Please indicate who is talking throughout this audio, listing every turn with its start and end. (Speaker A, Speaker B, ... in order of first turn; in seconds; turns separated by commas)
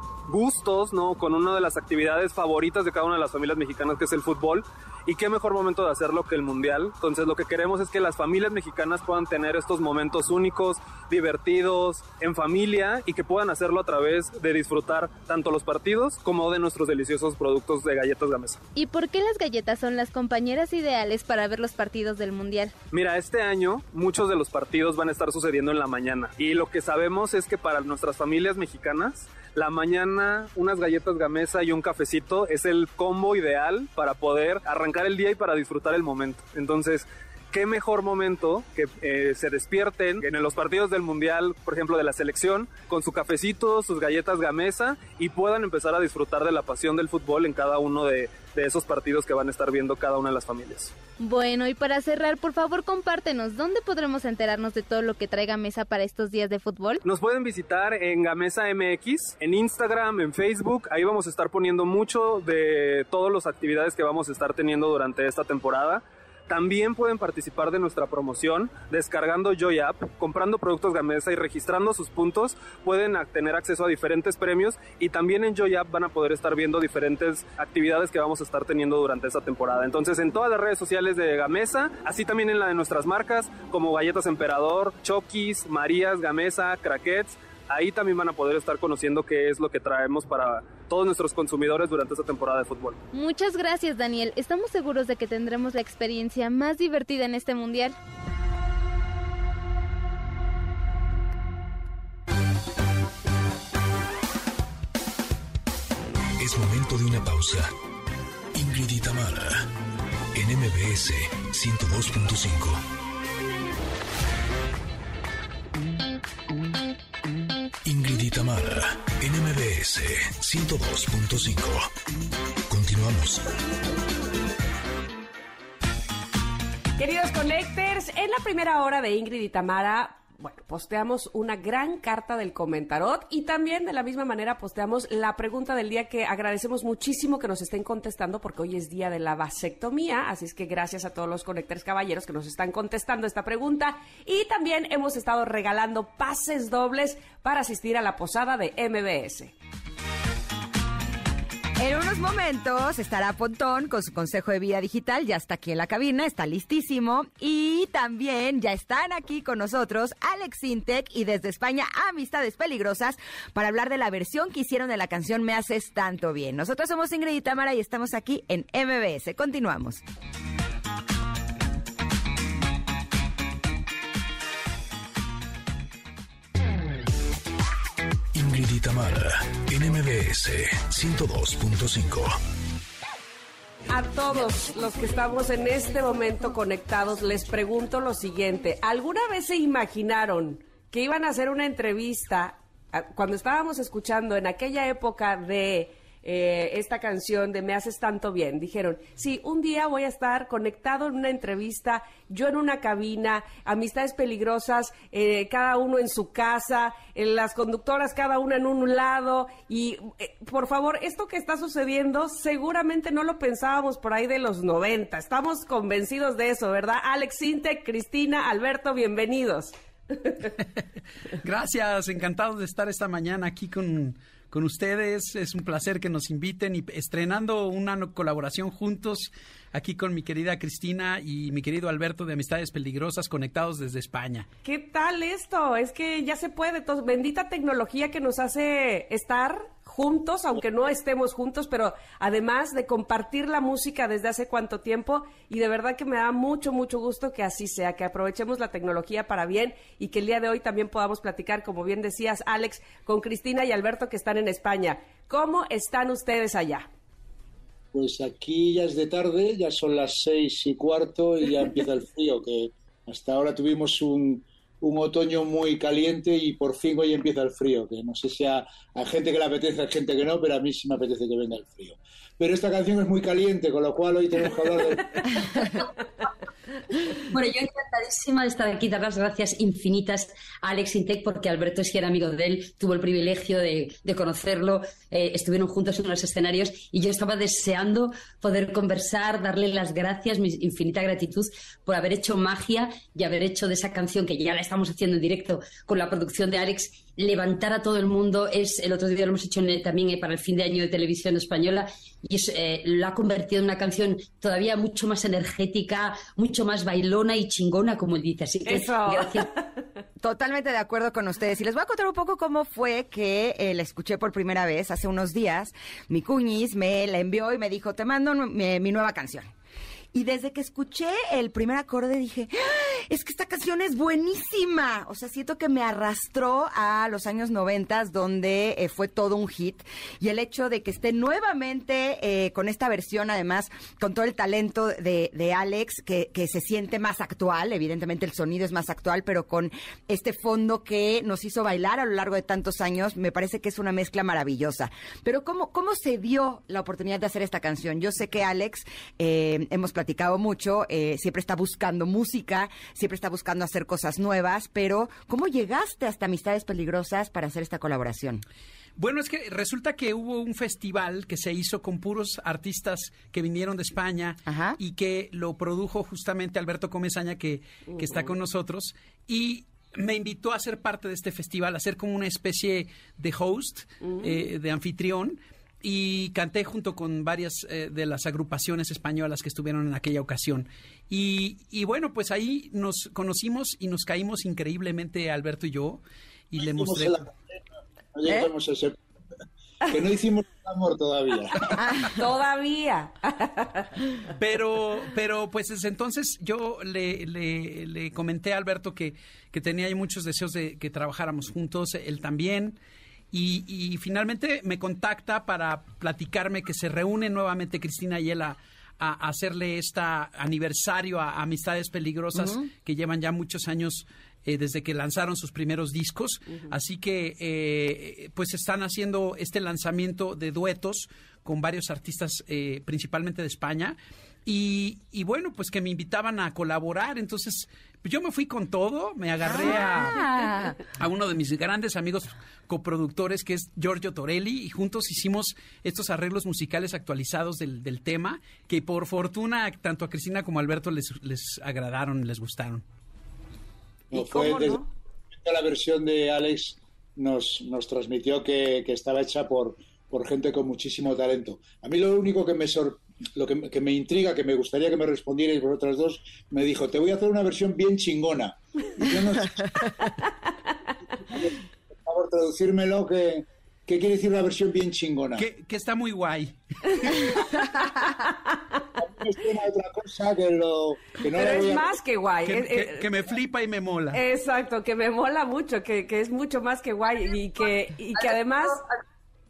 Speaker A: 0.3-18.6, Speaker B: 18.7-22.7, Speaker A: 22.9-50.9, Speaker B: 51.2-57.0, Speaker A: 57.0-93.0, Speaker B: 93.1-97.9, Speaker C: 106.4-107.7, Speaker C: 108.5-109.7, Speaker C: 110.3-112.8, Speaker C: 117.8-121.9, Speaker C: 122.7-123.4, Speaker D: 127.0-149.5, Speaker E: 151.8-170.0, Speaker C: 178.3-182.4, Speaker D: 183.9-220.5, Speaker F: 221.4-234.5, Speaker D: 234.6-256.9, Speaker G: 257.9-275.6, Speaker H: 277.3-309.5, Speaker D: 308.6-309.8, Speaker E: 310.2-319.5, Speaker E: 320.1-358.4, Speaker F: 359.0-387.3, Speaker E: 364.4-364.8, Speaker D: 367.9-368.3, Speaker D: 374.0-374.4, Speaker G: 386.6-387.6, Speaker G: 388.1-389.0, Speaker G: 389.9-391.9, Speaker E: 391.8-392.2, Speaker D: 392.1-393.9, Speaker F: 394.4-402.8, Speaker F: 403.3-442.8, Speaker E: 412.4-412.7, Speaker E: 429.4-430.8, Speaker G: 444.1-444.8, Speaker D: 444.1-444.9, Speaker G: 445.4-460.0, Speaker G: 461.2-465.5, Speaker F: 465.3-467.3, Speaker G: 469.0-472.0, Speaker D: 471.3-473.1, Speaker F: 472.4-474.2, Speaker D: 474.1-478.8, Speaker H: 478.1-478.8